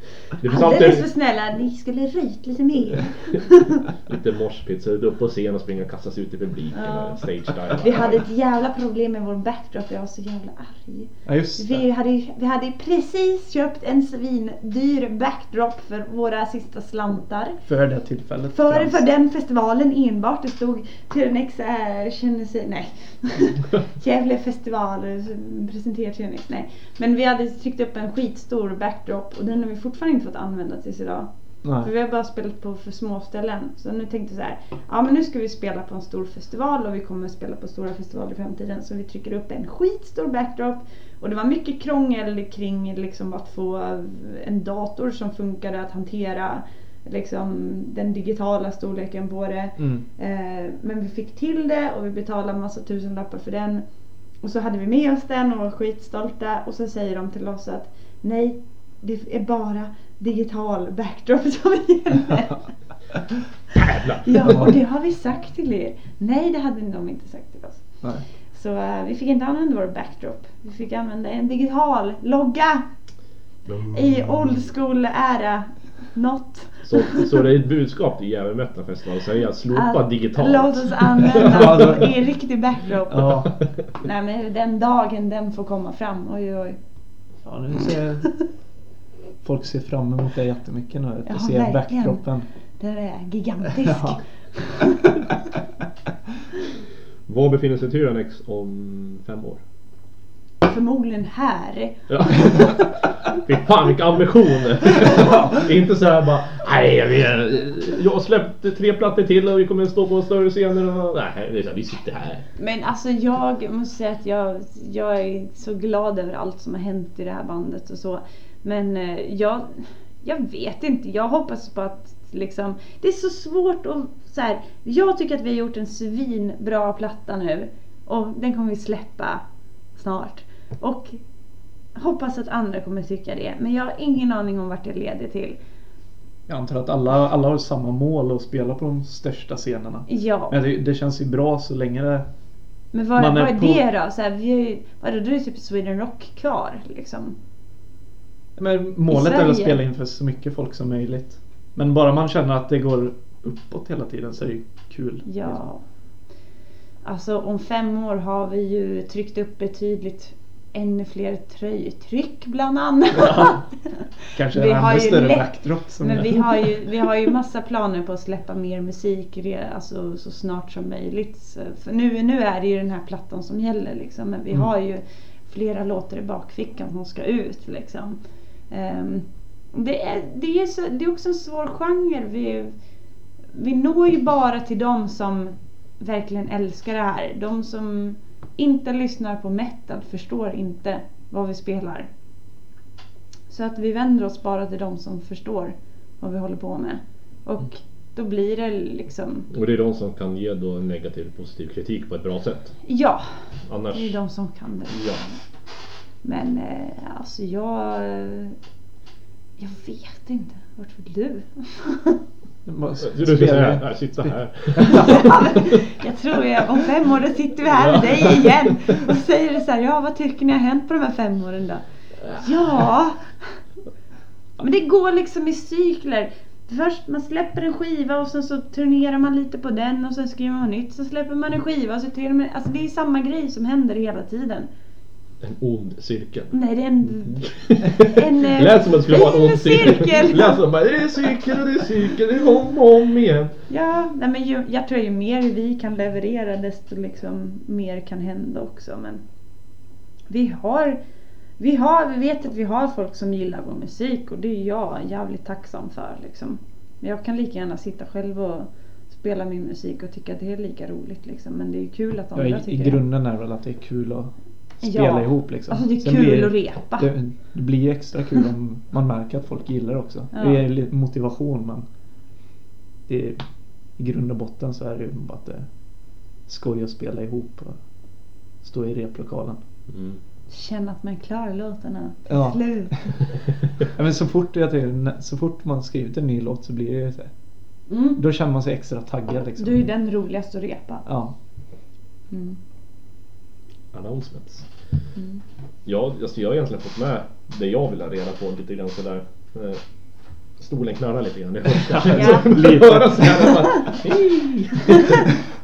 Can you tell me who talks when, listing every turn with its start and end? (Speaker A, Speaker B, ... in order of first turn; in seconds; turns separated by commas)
Speaker A: 0.3-1.1, Speaker B: 0.4-3.8, Speaker A: 3.3-8.2, Speaker B: 6.7-17.6, Speaker C: 11.2-11.8, Speaker C: 17.7-19.0, Speaker B: 18.5-53.8, Speaker C: 31.6-31.9, Speaker C: 49.8-50.0, Speaker B: 54.4-62.6, Speaker A: 63.8-64.5, Speaker B: 64.1-72.9, Speaker B: 73.8-77.4, Speaker A: 76.8-82.0, Speaker B: 79.7-83.4, Speaker C: 81.3-82.1, Speaker C: 83.1-83.6, Speaker B: 84.0-86.8, Speaker C: 87.4-88.3, Speaker C: 89.4-92.5, Speaker B: 91.2-92.2, Speaker B: 92.8-95.2, Speaker C: 93.8-94.2, Speaker A: 97.3-99.6, Speaker B: 100.6-102.8, Speaker A: 102.1-112.5, Speaker B: 112.6-129.4, Speaker B: 129.9-131.2, Speaker B: 131.9-135.6, Speaker C: 136.5-142.3, Speaker B: 140.1-140.6, Speaker B: 142.9-147.3, Speaker C: 143.2-143.8, Speaker C: 148.6-155.6, Speaker B: 149.1-149.8, Speaker B: 155.2-155.8, Speaker B: 157.0-178.2, Speaker C: 163.2-163.6, Speaker C: 164.3-166.8, Speaker B: 178.7-182.7, Speaker B: 183.5-192.1, Speaker B: 193.5-199.5, Speaker A: 199.5-202.8, Speaker B: 202.8-203.4, Speaker A: 203.7-204.2, Speaker B: 203.9-205.2, Speaker A: 204.9-205.2, Speaker B: 206.2-208.6, Speaker B: 209.6-212.2, Speaker C: 212.6-215.2, Speaker A: 213.0-215.7, Speaker B: 214.9-223.4, Speaker A: 217.8-218.8, Speaker B: 224.6-234.7, Speaker A: 235.4-236.6, Speaker B: 236.5-240.6, Speaker A: 237.1-243.6, Speaker B: 243.7-249.2, Speaker B: 250.3-251.0, Speaker B: 251.6-263.0, Speaker C: 262.3-271.8, Speaker B: 264.8-267.1, Speaker B: 270.3-270.6, Speaker C: 273.1-273.4, Speaker C: 274.0-275.7, Speaker C: 276.5-277.8, Speaker C: 278.6-279.6, Speaker A: 279.9-280.2, Speaker B: 280.5-283.2, Speaker C: 282.3-282.9, Speaker C: 283.8-287.3, Speaker B: 287.9-288.2, Speaker C: 288.2-289.9, Speaker B: 289.6-291.0, Speaker C: 291.1-291.3, Speaker B: 292.3-292.6, Speaker A: 293.9-294.7, Speaker A: 295.8-299.8, Speaker A: 300.6-305.4, Speaker C: 301.9-303.7, Speaker B: 302.1-302.5